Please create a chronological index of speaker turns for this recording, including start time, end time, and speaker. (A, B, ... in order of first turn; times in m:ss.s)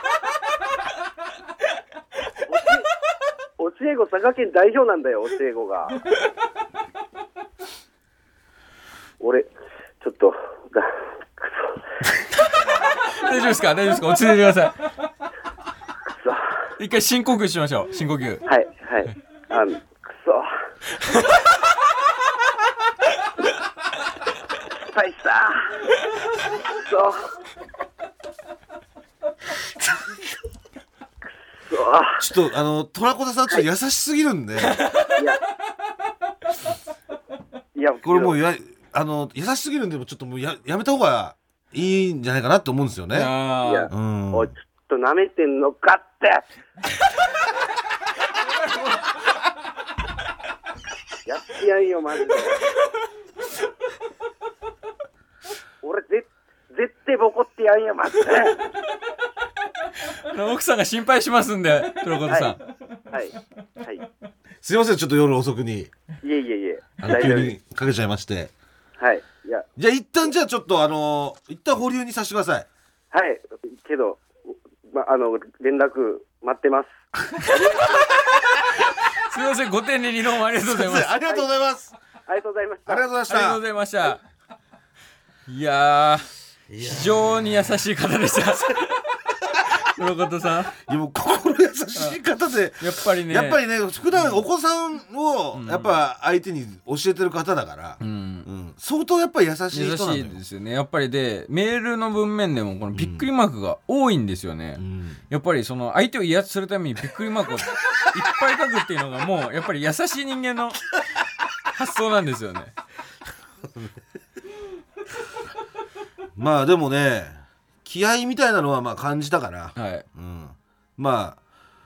0:02.4-0:02.9 A
0:03.6-0:06.0 A
0:09.2-0:09.5 A
0:10.0-0:11.8 A
0:13.0-0:14.8 B
0:16.1-0:16.6 A
0:16.8-0:18.4 B
0:18.5-0:20.5 A
0:24.8-0:25.8 A
0:26.7-0:27.3 A
0:31.6-0:32.2 A
0:32.2-0:34.8 C
0:34.8-0:35.1 B
0:35.1-0:35.4 A
0:37.8-0:38.4 A
0:38.0-0:43.3 C
0:43.1-0:43.9 B
0:43.6-0:46.4 A
0:43.9-0:44.5 C
0:51.3-0:52.6 A
0:55.8-0:58.6 A
1:00.0-1:02.6 B
1:02.3-1:02.6 A
1:03.1-1:04.1 A
1:04.6-1:05.9 C
1:06.2-1:07.5 A
1:07.0-1:08.5 C
1:09.0-1:09.7 A
1:09.8-1:12.7 C
1:13.1-1:14.2 A
1:14.9-1:18.1 A
1:19.1-1:21.1 B
1:20.6-1:21.9 C
1:22.3-1:23.0 A
1:22.9-1:23.6 C
1:23.3-1:24.2 B
1:25.5-1:29.0 B
1:26.7-1:27.4 C
1:29.7-1:30.8 B
1:30.8-1:40.4 C
1:32.8-1:33.6 B
1:34.2-1:34.4 B
1:35.5-1:36.0 B
1:38.0-1:38.5 B
1:39.7-1:50.8 B
1:42.9-1:43.3 C
1:44.8-1:45.2 C
1:51.7-1:52.7 B
1:56.4-2:01.4 C
1:59.8-2:00.0 B